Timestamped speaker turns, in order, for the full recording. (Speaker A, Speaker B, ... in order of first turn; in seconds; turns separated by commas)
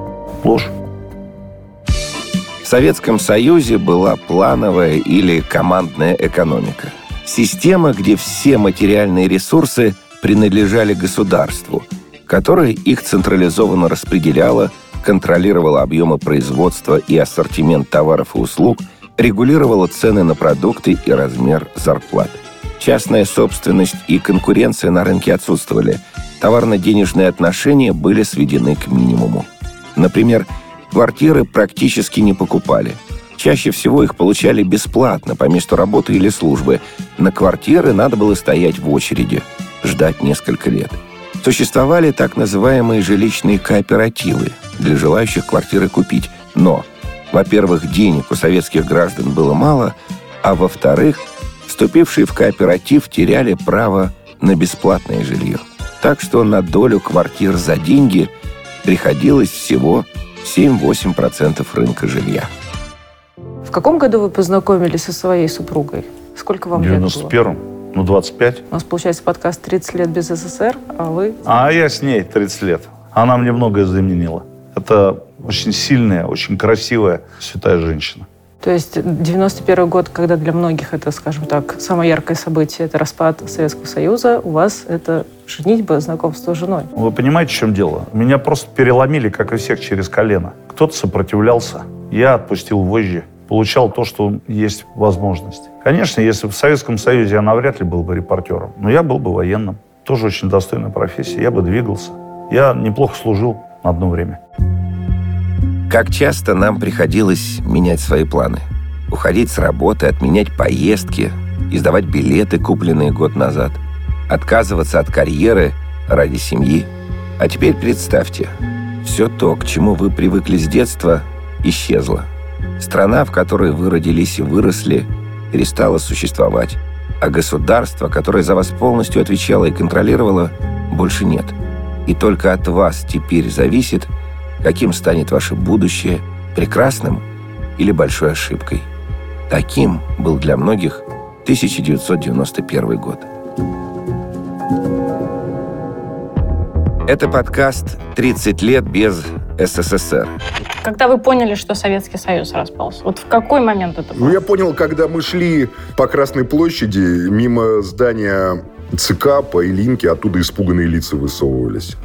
Speaker A: 0.4-0.7, Speaker B: 2.6-58.3, Speaker B: 58.8-62.5, Speaker C: 63.6-67.3, Speaker A: 66.7-68.6, Speaker C: 68.7-71.4, Speaker A: 71.4-78.2, Speaker C: 78.6-86.9, Speaker A: 86.9-104.4, Speaker B: 105.9-118.5, Speaker B: 119.0-122.3, Speaker B: 122.8-134.1, Speaker B: 134.6-137.2, Speaker B: 137.8-138.8, Speaker B: 139.5-143.2, Speaker B: 147.1-150.3, Speaker D: 150.8-154.4, Speaker E: 154.1-162.0